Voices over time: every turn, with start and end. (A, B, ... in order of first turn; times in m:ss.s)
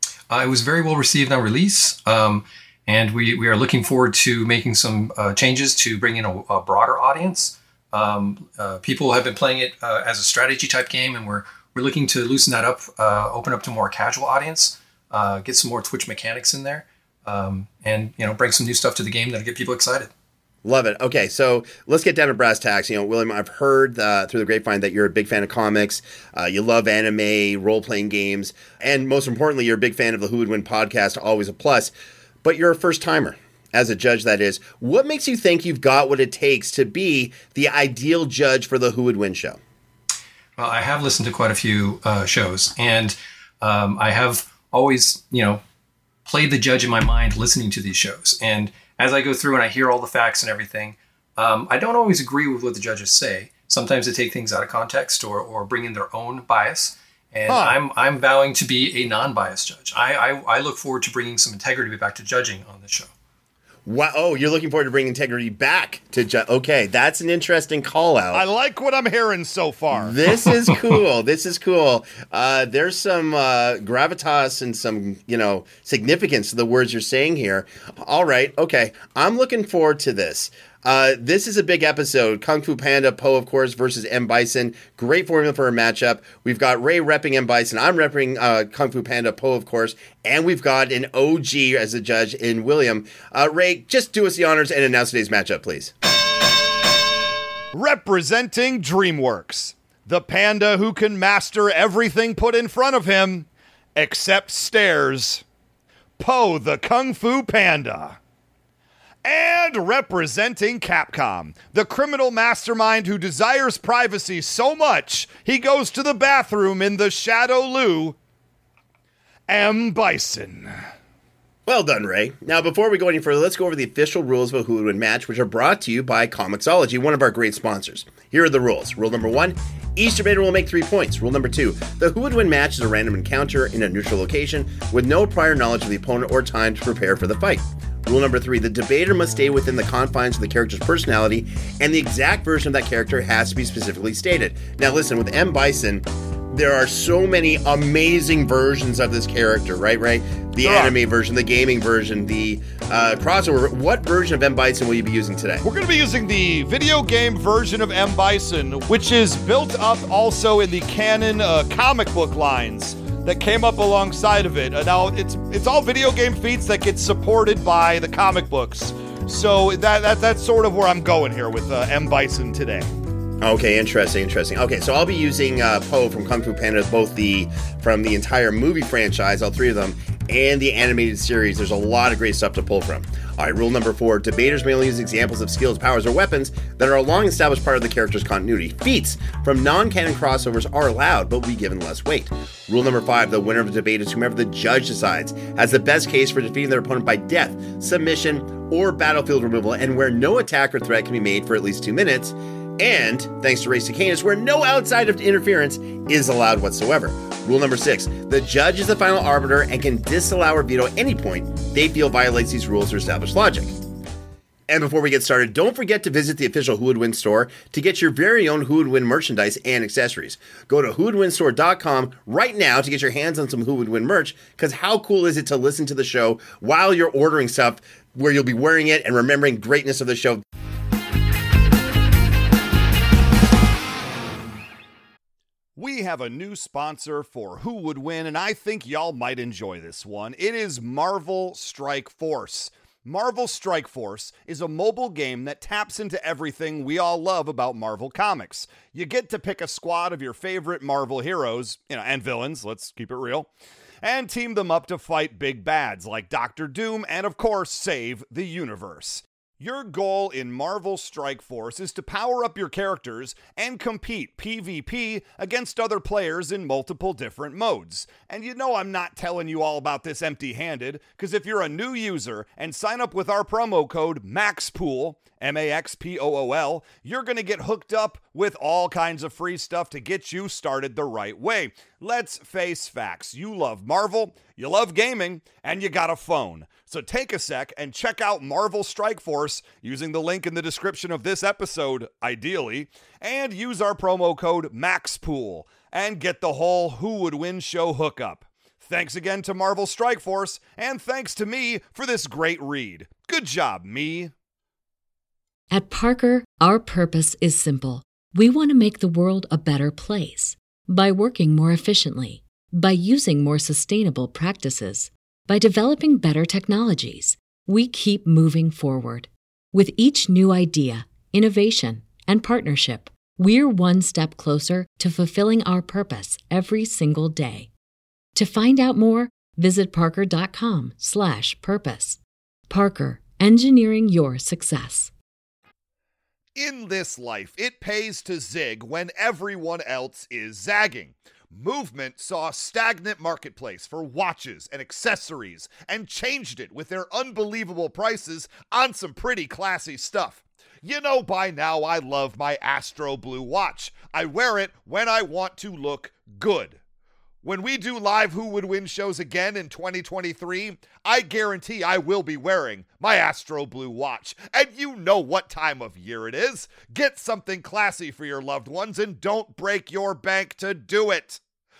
0:00.3-0:20.1 A
0:20.6-0:31.9 B
0:32.4-0:39.6 B
0:40.6-0:45.6 A
0:46.2-1:03.1 A
0:57.5-0:57.8 C
1:03.9-1:08.4 B
1:08.3-1:10.2 C
1:09.9-1:35.9 B
1:37.7-1:45.4 C
1:46.2-1:48.2 C
1:49.2-1:58.2 C
1:59.5-2:00.7 C
2:01.7-2:35.6 B
2:30.6-2:31.0 C
2:35.6-2:52.9 C
2:53.4-3:33.7 B
3:34.7-3:50.4 B
3:55.8-4:13.5 C
4:14.0-5:04.3 C
5:05.7-5:27.7 D
5:28.4-5:35.1 D
5:36.6-5:56.8 C
5:57.4-6:11.4 C